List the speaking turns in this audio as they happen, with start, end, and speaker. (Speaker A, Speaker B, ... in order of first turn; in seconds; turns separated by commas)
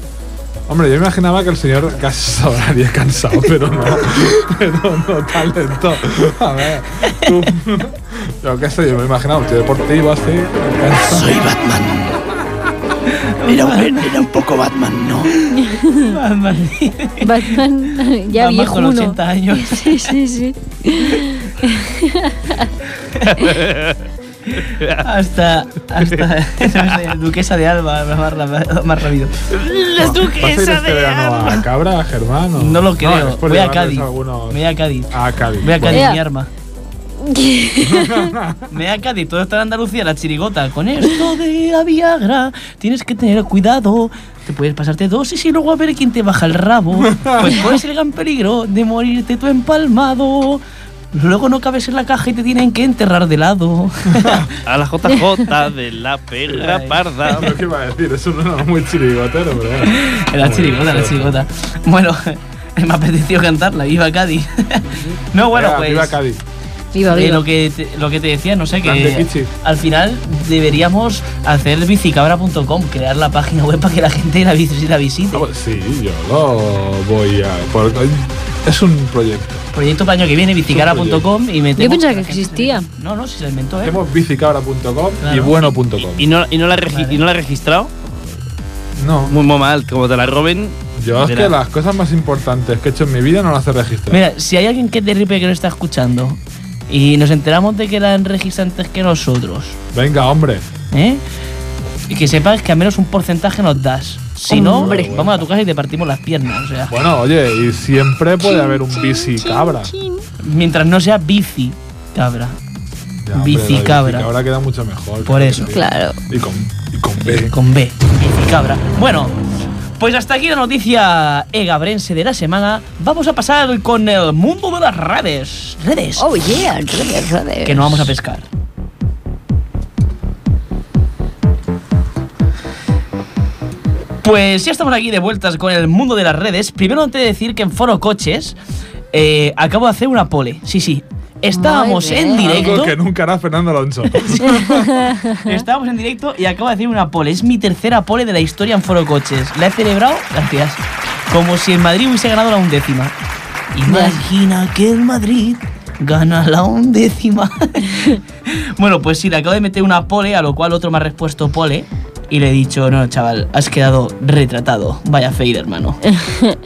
Speaker A: 0.7-11.3, Speaker B: 11.1-12.2, Speaker C: 13.1-14.1, Speaker B: 13.4-15.4, Speaker C: 15.4-17.6, Speaker D: 15.6-16.1, Speaker D: 17.2-22.7, Speaker C: 18.3-20.1, Speaker C: 23.0-23.5, Speaker E: 23.3-24.0, Speaker C: 24.5-31.6, Speaker E: 24.7-25.0, Speaker E: 26.0-26.8, Speaker A: 30.0-34.6, Speaker C: 32.5-36.5, Speaker A: 35.1-36.1, Speaker D: 35.9-36.2, Speaker D: 37.2-38.3, Speaker A: 37.8-38.7, Speaker C: 38.7-54.5, Speaker A: 47.0-47.5, Speaker A: 54.1-54.5, Speaker E: 54.6-57.5, Speaker C: 56.5-57.1, Speaker A: 57.2-61.5, Speaker C: 59.9-66.2, Speaker A: 65.5-66.4, Speaker D: 66.9-67.4, Speaker C: 67.1-75.5, Speaker A: 68.8-69.5, Speaker A: 75.3-79.6, Speaker C: 79.7-84.0, Speaker A: 80.7-81.3, Speaker D: 81.8-82.9, Speaker A: 83.8-86.2, Speaker C: 85.2-85.7, Speaker E: 86.1-87.9, Speaker C: 86.9-87.2, Speaker A: 89.0-89.3, Speaker E: 89.3-91.5, Speaker A: 91.0-94.2, Speaker C: 94.1-99.8, Speaker A: 99.9-100.7, Speaker C: 100.9-101.2, Speaker C: 102.1-106.9, Speaker D: 104.5-105.2, Speaker A: 104.5-105.4, Speaker A: 106.9-109.9, Speaker D: 108.5-110.2, Speaker C: 110.4-112.6, Speaker A: 113.2-117.5, Speaker C: 113.3-114.3, Speaker C: 115.2-115.8, Speaker D: 115.7-116.2, Speaker C: 117.2-119.3, Speaker C: 120.0-126.3, Speaker D: 126.2-128.1, Speaker C: 127.6-128.4, Speaker C: 134.2-138.6, Speaker C: 139.1-142.9, Speaker D: 141.5-142.7, Speaker A: 142.4-145.1, Speaker C: 144.1-144.6, Speaker D: 144.5-145.4, Speaker C: 145.3-153.1, Speaker C: 153.7-166.1, Speaker D: 153.8-154.2, Speaker D: 166.1-166.6